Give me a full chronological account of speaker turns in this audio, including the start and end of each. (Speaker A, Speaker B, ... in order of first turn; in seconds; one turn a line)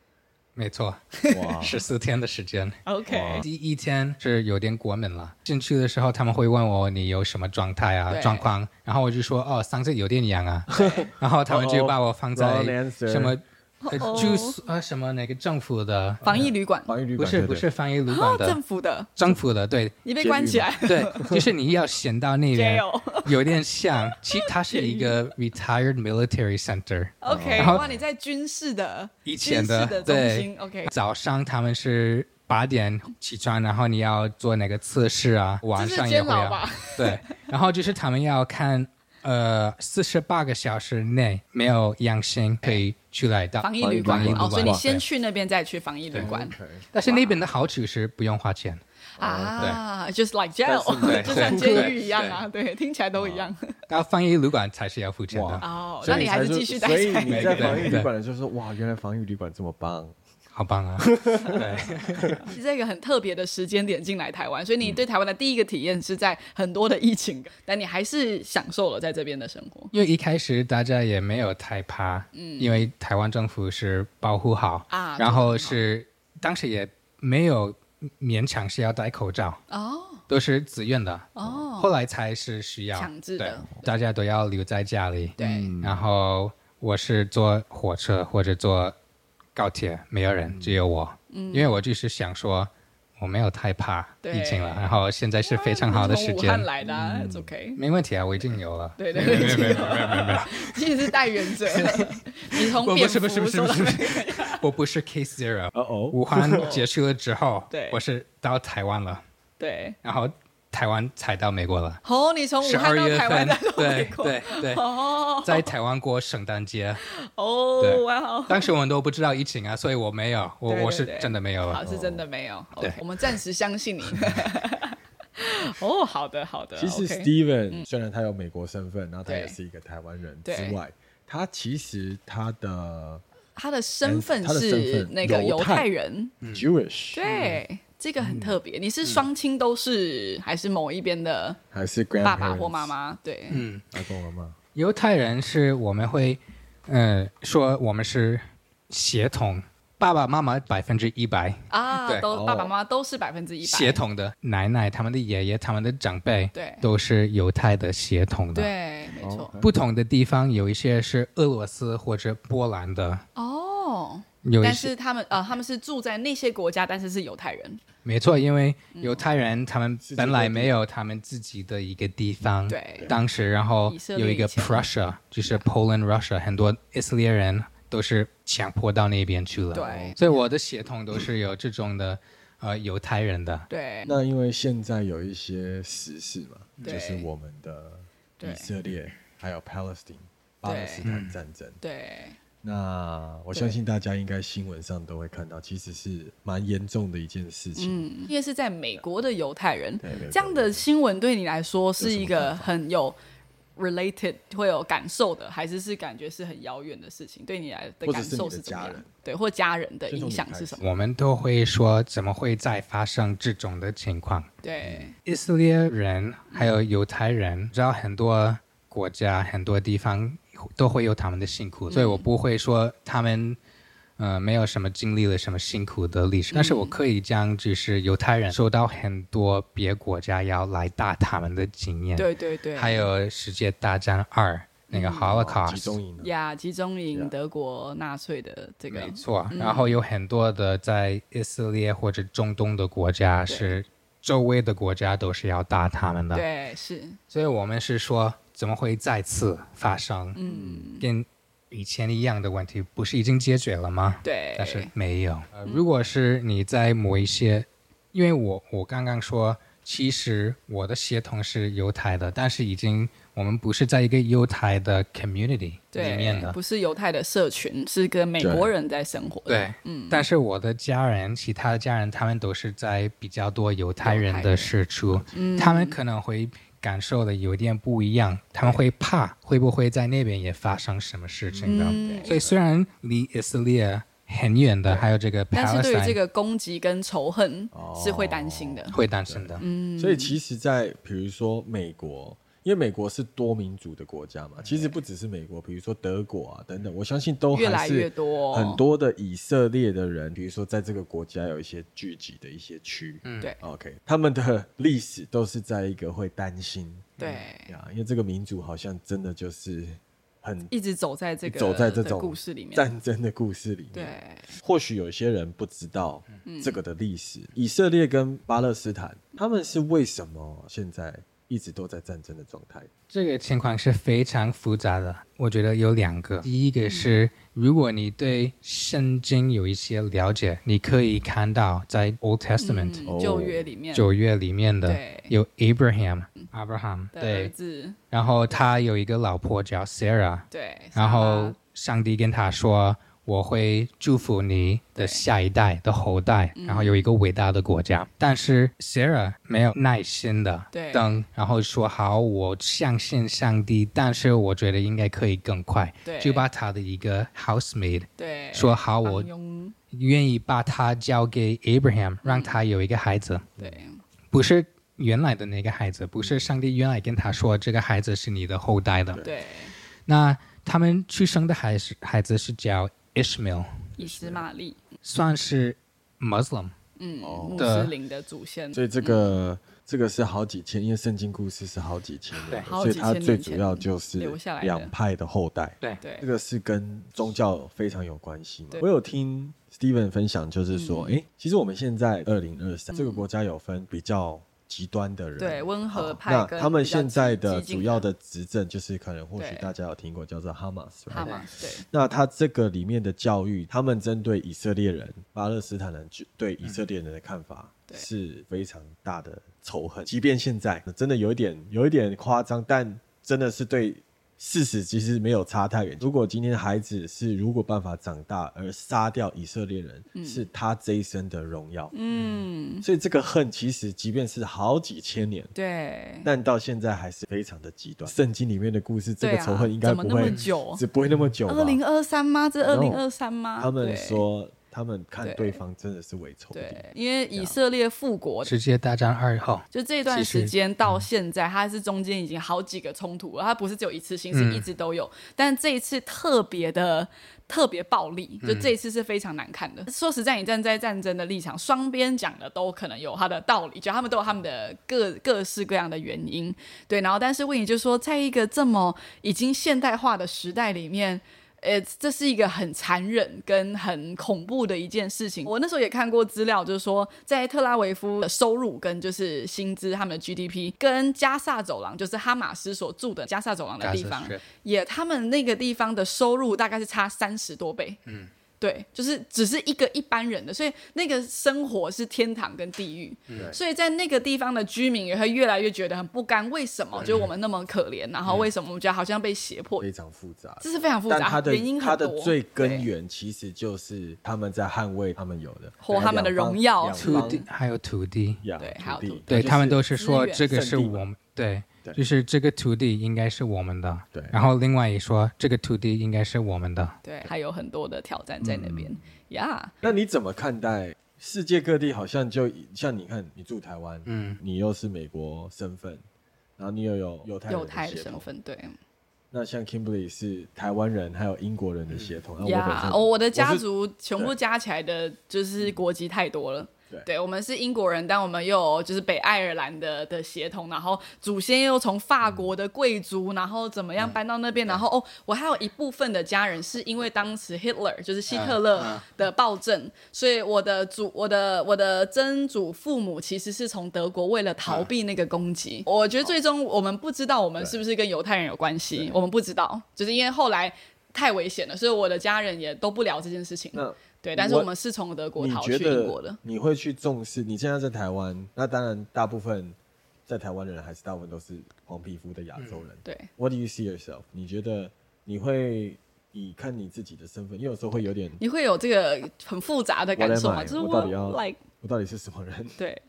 Speaker A: 0.6-1.0
Speaker B: 1.2-1.6
Speaker C: 1.3-1.8
Speaker A: 1.6-2.8
Speaker B: 2.9-3.5
Speaker C: 3.1-3.5
Speaker A: 3.4-16.4
Speaker B: 8.1-8.5
Speaker C: 10.7-13.4
Speaker B: 10.7-11.1
Speaker B: 13.8-14.6
Speaker C: 16.2-17.7
Speaker B: 16.2-16.9
Speaker A: 17.2-18.6
Speaker B: 18.1-19.1
Speaker A: 19.2-19.9
Speaker B: 20.0-21.3
Speaker C: 20.2-21.5
Speaker A: 20.8-27.9
Speaker B: 22.5-23.6
Speaker B: 24.1-25.2
Speaker B: 27.2-30.9
Speaker C: 27.3-28.0
Speaker A: 29.2-45.0
Speaker B: 35.8-37.4
Speaker B: 43.6-47.4
Speaker C: 43.8-44.8
Speaker C: 46.1-46.9
Speaker A: 46.9-48.8
Speaker C: 49.2-49.8
Speaker B: 49.2-53.8
Speaker C: 50.6-52.0
Speaker A: 51.0-52.4
Speaker C: 53.1-53.5
Speaker A: 53.9-56.3
Speaker C: 55.3-60.1
Speaker B: 55.6-58.0
Speaker A: 57.3-58.1
Speaker A: 60.5-62.3
Speaker C: 61.0-62.5
Speaker B: 62.5-69.9
Speaker A: 69.9-79.6
Speaker B: 72.3-72.9
Speaker B: 74.9-75.8
Speaker B: 79.7-80.2
Speaker A: 80.3-89.0
Speaker B: 81.4-81.9
Speaker B: 82.9-83.9
Speaker B: 85.4-85.7
Speaker C: 85.4-86.0
Speaker A: 89.6-96.7
Speaker C: 90.5-90.8
Speaker B: 91.3-91.7
Speaker B: 94.2-97.8
Speaker C: 96.8-97.5
Speaker A: 97.8-101.1
Speaker B: 99.0-104.6
Speaker C: 99.2-100.1
Speaker A: 101.7-109.2
Speaker C: 105.7-106.8
Speaker B: 106.6-106.8
Speaker B: 107.7-108.0
Speaker B: 109.6-110.0
Speaker A: 110.0-112.0
Speaker B: 112.0-115.7
Speaker A: 112.6-114.9
Speaker A: 115.4-117.0
Speaker B: 117.0-118.7
Speaker A: 117.8-121.8
Speaker B: 120.7-127.9
Speaker C: 121.8-122.2
Speaker C: 126.8-133.2
Speaker B: 129.3-129.6
Speaker B: 130.4-130.8
Speaker B: 133.6-136.3
Speaker C: 134.0-135.9
Speaker C: 136.5-137.2
Speaker B: 137.1-141.6
Speaker A: 137.2-137.6
Speaker C: 138.2-138.6
Speaker C: 141.7-142.9
Speaker B: 142.2-143.6
Speaker A: 143.5-143.9
Speaker C: 143.9-144.6
Speaker A: 144.8-152.3
Speaker B: 151.7-154.0
Speaker C: 152.3-152.7
Speaker A: 153.6-158.7
Speaker B: 156.5-156.8
Speaker B: 158.5-159.5
Speaker C: 159.2-159.7
Speaker A: 159.6-163.2
Speaker B: 163.4-167.8
Speaker A: 164.4-164.9
Speaker A: 168.1-183.7
Speaker B: 168.9-169.3
Speaker C: 170.0-170.8
Speaker B: 172.7-173.2
Speaker B: 173.8-174.9
Speaker C: 179.7-180.2
Speaker B: 179.7-180.2
Speaker B: 183.7-184.2
Speaker C: 184.1-191.8
Speaker B: 186.8-187.3
Speaker B: 188.4-188.7
Speaker B: 190.7-191.0
Speaker A: 191.1-191.3
Speaker B: 191.8-192.4
Speaker C: 192.6-198.1
Speaker B: 197.8-203.2
Speaker C: 200.0-200.9
Speaker C: 202.0-202.7
Speaker B: 203.8-210.9
Speaker C: 208.0-209.1
Speaker C: 210.1-210.8
Speaker A: 210.8-214.5
Speaker B: 214.6-215.2
Speaker A: 215.2-223.6
Speaker B: 221.9-222.3
Speaker A: 224.2-236.0
Speaker B: 226.5-227.0
Speaker B: 232.2-233.1
Speaker B: 234.9-235.4
Speaker C: 235.3-236.3
Speaker B: 236.2-240.0
Speaker A: 238.9-246.4
Speaker B: 243.5-243.8
Speaker B: 246.3-247.2
Speaker A: 247.3-250.4
Speaker B: 250.3-251.1
Speaker C: 250.4-250.9
Speaker A: 251.0-266.6
Speaker B: 254.2-254.9
Speaker B: 265.9-270.3
Speaker C: 268.4-268.7
Speaker A: 269.5-286.2
Speaker B: 274.0-274.7
Speaker B: 275.3-276.0
Speaker C: 281.5-282.6
Speaker B: 281.6-282.5
Speaker B: 285.5-289.0
Speaker C: 287.7-310.7
Speaker A: 288.9-289.6
Speaker B: 289.6-290.4
Speaker B: 297.5-298.8
Speaker A: 303.2-303.5
Speaker B: 307.2-307.7
Speaker B: 310.7-312.9
Speaker C: 311.4-322.9
Speaker B: 313.9-314.5
Speaker B: 316.4-316.8
Speaker A: 323.1-333.1
Speaker B: 326.8-327.2
Speaker B: 332.6-334.1
Speaker C: 333.1-333.7
Speaker A: 333.9-337.5
Speaker B: 334.8-335.4
Speaker B: 337.1-338.0
Speaker A: 338.1-359.3
Speaker B: 340.5-341.6
Speaker B: 345.0-345.2
Speaker B: 346.6-347.0
Speaker B: 350.7-351.1
Speaker B: 356.1-356.4
Speaker B: 358.2-359.8
Speaker A: 359.9-363.4
Speaker B: 362.2-362.6
Speaker B: 363.6-364.0
Speaker A: 364.3-369.2
Speaker C: 366.2-366.5
Speaker B: 369.2-369.7
Speaker A: 370.1-373.8
Speaker B: 374.0-374.8
Speaker C: 374.0-374.4
Speaker A: 375.0-376.7
Speaker B: 377.0-379.4
Speaker C: 377.2-377.8
Speaker A: 377.6-377.9
Speaker C: 378.7-421.9
Speaker B: 382.6-384.9
Speaker B: 386.0-386.3
Speaker B: 390.7-391.2
Speaker B: 392.9-393.2
Speaker B: 395.4-398.1
Speaker B: 399.4-399.7
Speaker B: 401.1-401.9
Speaker A: 401.1-401.5
Speaker B: 420.1-420.5
Speaker B: 421.9-422.9
Speaker C: 422.8-425.5
Speaker B: 425.5-426.3
Speaker C: 426.2-431.8
Speaker B: 429.2-430.8
Speaker A: 430.2-430.5
Speaker B: 431.5-434.2
Speaker C: 432.6-433.0
Speaker C: 433.6-437.6
Speaker B: 435.2-435.6
Speaker B: 436.5-438.5
Speaker A: 438.4-441.1
Speaker B: 439.7-478.0
Speaker A: 444.3-444.7
Speaker A: 448.4-448.7
Speaker A: 473.8-474.4
Speaker B: 478.6-489.9
Speaker A: 483.3-483.6
Speaker C: 483.3-483.6
Speaker C: 486.9-487.3
Speaker C: 489.8-497.5
Speaker B: 490.6-492.9
Speaker B: 495.8-497.4
Speaker A: 496.9-498.4
Speaker C: 498.4-499.9
Speaker B: 498.6-499.2
Speaker A: 499.3-506.9
Speaker B: 499.9-500.4
Speaker C: 500.5-501.1
Speaker C: 504.1-504.4
Speaker B: 507.0-509.9
Speaker C: 508.4-509.1
Speaker C: 509.8-516.0
Speaker A: 514.1-514.4
Speaker C: 516.6-518.3
Speaker B: 517.5-518.8
Speaker C: 519.3-523.6
Speaker B: 522.4-556.4
Speaker C: 532.2-532.5
Speaker A: 538.3-539.0
Speaker C: 553.7-554.7
Speaker C: 555.4-559.8
Speaker C: 560.3-568.4
Speaker A: 562.6-562.8
Speaker B: 563.0-563.3
Speaker B: 568.4-571.6
Speaker C: 570.2-572.8